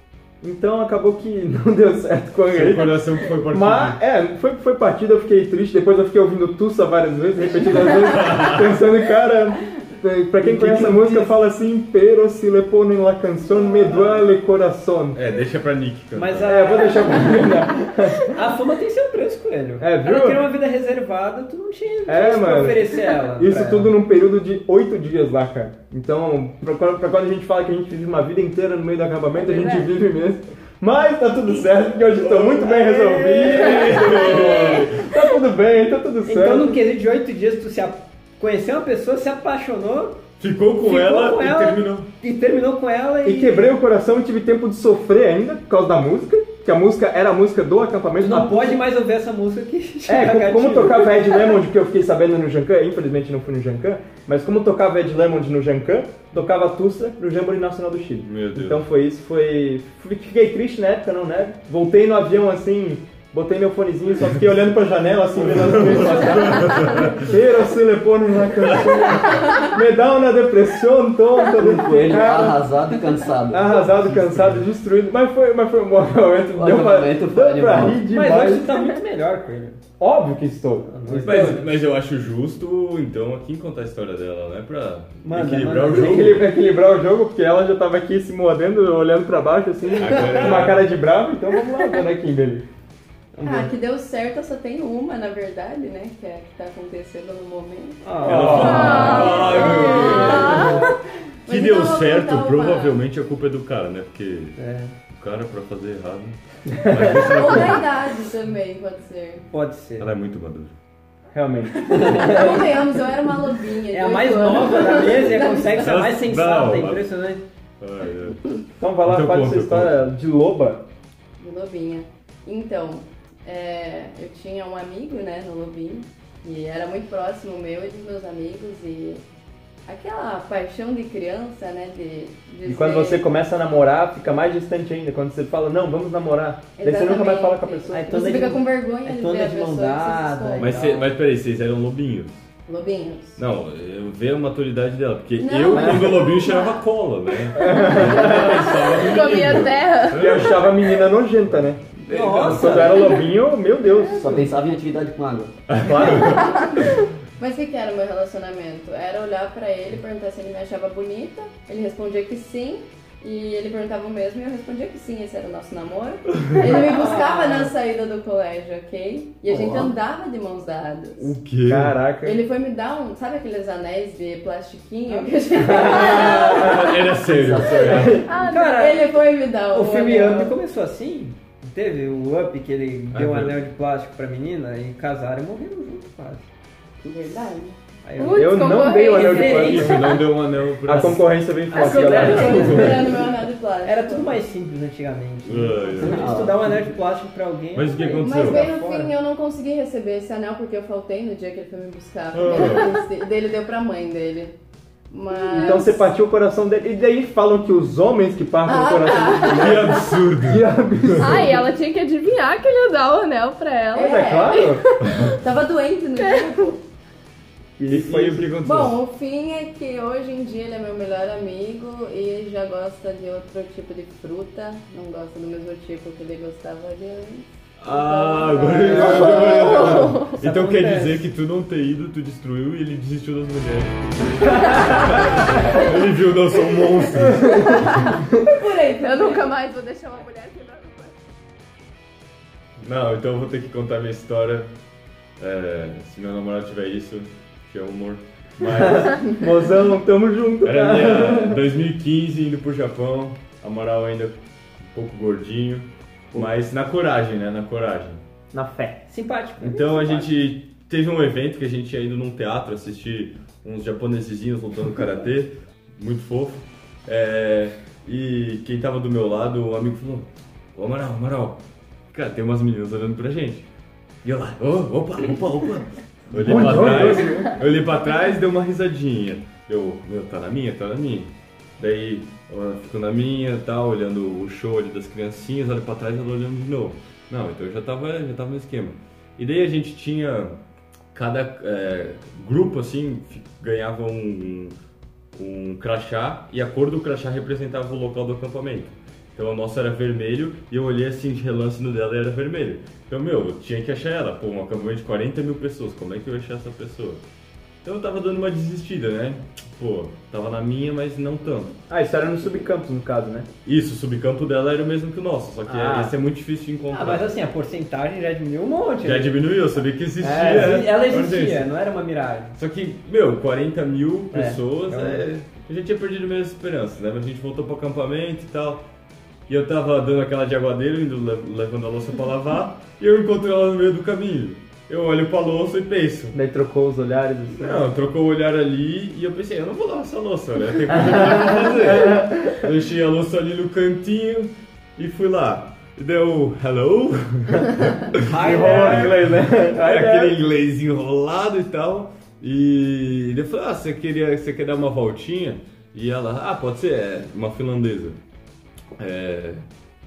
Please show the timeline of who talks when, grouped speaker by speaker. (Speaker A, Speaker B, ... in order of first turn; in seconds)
Speaker A: 0.4-15.2, 16.4-18.4, 19.8-20.4, 22.1-36.8, 43.2-48.7, 50.1-72.6, 73.5-78.8, 80.0-81.6, 85.9-92.6, 98.2-99.9, 106.9-107.5, 111.3-112.8, 118.8-120.8, 132.6-138.6, 145.7-146.2, 147.6-148.8, 150.2-154.5, 155.7-156.5, 171.7-172.4, 175.6-178.2, 188.3-190.2, 190.8-193.0, 205.5-211.6, 214.0-214.8, 217.8-218.9, 234.7-234.9, 248.6-251.6, 258.5-259.0, 276.3-277.6, 311.9-313.5, 315.6-316.1, 320.2-320.8, 336.3-337.8, 341.0-342.6, 348.4-350.4
Speaker B: 2.5-4.0, 7.6-8.8, 15.1-16.8, 32.1-35.1, 40.4-42.1, 58.2-58.8, 65.3-67.4, 68.7-69.2, 73.8-74.7, 81.2-86.5, 90.0-90.9, 98.2-100.8, 101.5-107.9, 110.0-110.7, 115.7-117.1, 117.8-120.0, 140.6-142.4, 143.4-150.7, 152.1-152.8, 156.1-156.4, 171.2-172.0, 175.9-178.3, 183.1-183.6, 189.6-191.3, 192.3-193.2, 195.4-196.4, 197.7-198.7, 202.3-202.9, 209.5-211.4, 217.9-218.9, 227.8-238.1, 242.8-244.7, 245.4-249.3, 250.6-258.2, 259.6-271.6, 272.1-273.6, 274.2-290.6, 291.1-294.8, 295.3-307.2, 307.8-311.8, 313.6-317.3, 319.0-321.6, 322.5-328.9, 329.5-336.4, 337.5-358.2, 358.9-359.6
Speaker C: 10.4-11.3, 16.1-17.6, 18.2-23.9, 36.2-40.2, 40.8-43.7, 48.2-51.6, 78.1-79.8, 80.8-81.7, 85.2-86.4, 93.3-93.7, 98.0-100.8, 104.6-104.9, 109.5-110.1, 112.0-112.2, 113.9-117.4, 137.9-141.1, 152.1-153.2, 166.6-167.7, 175.1-175.6, 178.4-179.1, 179.7-186.5, 188.0-190.3, 191.7-193.3, 193.8-199.1, 230.2-231.2, 259.1-260.3, 316.9-319.4, 320.2-322.5, 324.3-325.3, 348.3-349.1
Speaker D: 29.3-29.9, 34.2-34.8, 98.6-100.9, 149.0-150.4, 178.2-179.1, 188.2-190.2, 211.2-215.3, 216.2-216.7, 229.0-230.4, 239.0-241.2
Speaker E: 71.5-73.8, 76.5-78.1, 154.1-155.6, 169.5-169.9, 177.2-178.2, 196.0-196.8
Speaker F: 90.0-90.6, 93.4-100.8, 101.4-103.0, 107.0-109.4, 112.0-115.7, 121.4-129.2, 129.8-133.2, 136.8-140.8, 142.7-143.4, 145.4-146.8, 147.5-149.2, 156.1-171.3, 172.2-176.8, 178.5-180.6, 187.0-187.8, 191.8-194.4, 198.0-204.5, 205.1-206.0, 208.6-210.0, 213.9-216.8, 218.6-230.2, 237.5-239.5